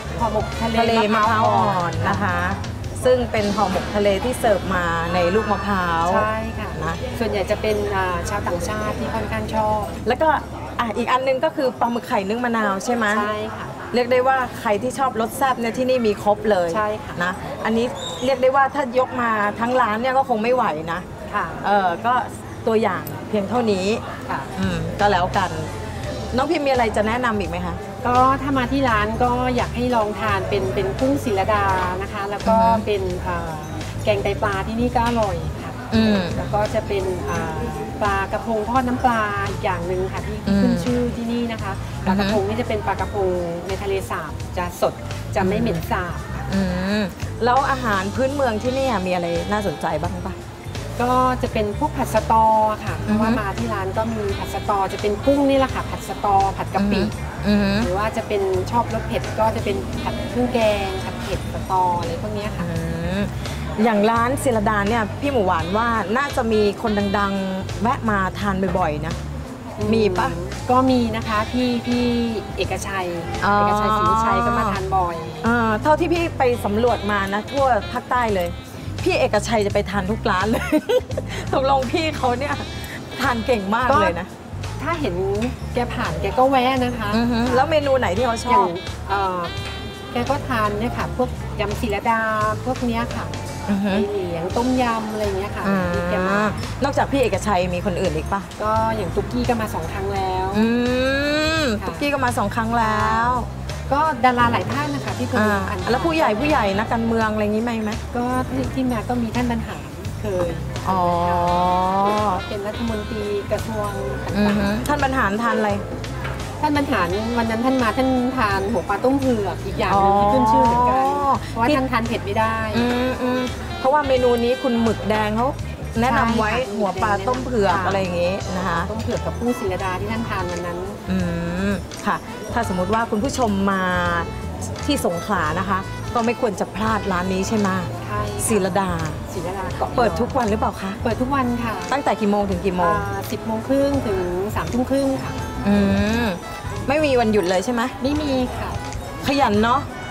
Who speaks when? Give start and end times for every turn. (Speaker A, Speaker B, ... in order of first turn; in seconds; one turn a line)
Speaker A: 0.2-2.3
Speaker B: 0.7-7.0
Speaker A: 6.0-9.9
Speaker B: 10.1-13.3
Speaker A: 13.1-13.8
Speaker B: 13.9-21.1
Speaker A: 16.7-17.2
Speaker A: 21.3-21.6
Speaker B: 21.6-27.8
Speaker A: 28.0-46.5
Speaker B: 32.5-32.9
Speaker B: 35.9-36.4
Speaker B: 40.5-40.9
Speaker B: 42.1-42.4
Speaker B: 45.4-45.8
Speaker B: 46.5-50.4
Speaker A: 51.0-57.1
Speaker B: 53.1-53.4
Speaker B: 56.8-57.9
Speaker A: 57.8-62.7
Speaker B: 62.6-69.2
Speaker A: 69.8-75.5
Speaker B: 69.8-70.4
Speaker B: 73.4-74.8
Speaker B: 75.4-84.3
Speaker A: 83.9-84.2
Speaker A: 84.8-87.7
Speaker B: 87.1-88.8
Speaker A: 88.5-89.5
Speaker A: 90.1-93.3
Speaker B: 93.7-94.1
Speaker A: 93.9-96.6
Speaker B: 95.6-98.5
Speaker A: 98.6-100.7
Speaker B: 100.5-103.5
Speaker A: 101.8-102.1
Speaker A: 102.8-106.6
Speaker B: 105.3-108.0
Speaker A: 108.1-111.6
Speaker B: 110.8-112.4
Speaker A: 112.2-114.8
Speaker B: 114.3-115.8
Speaker A: 116.6-122.9
Speaker B: 119.9-121.8
Speaker B: 122.7-128.9
Speaker A: 126.1-128.1
Speaker A: 128.7-131.0
Speaker B: 131.1-139.2
Speaker A: 138.0-140.4
Speaker B: 139.8-141.0
Speaker A: 141.0-141.9
Speaker B: 141.9-143.1
Speaker A: 142.8-145.5
Speaker B: 145.6-148.0
Speaker A: 148.0-148.8
Speaker B: 149.2-149.9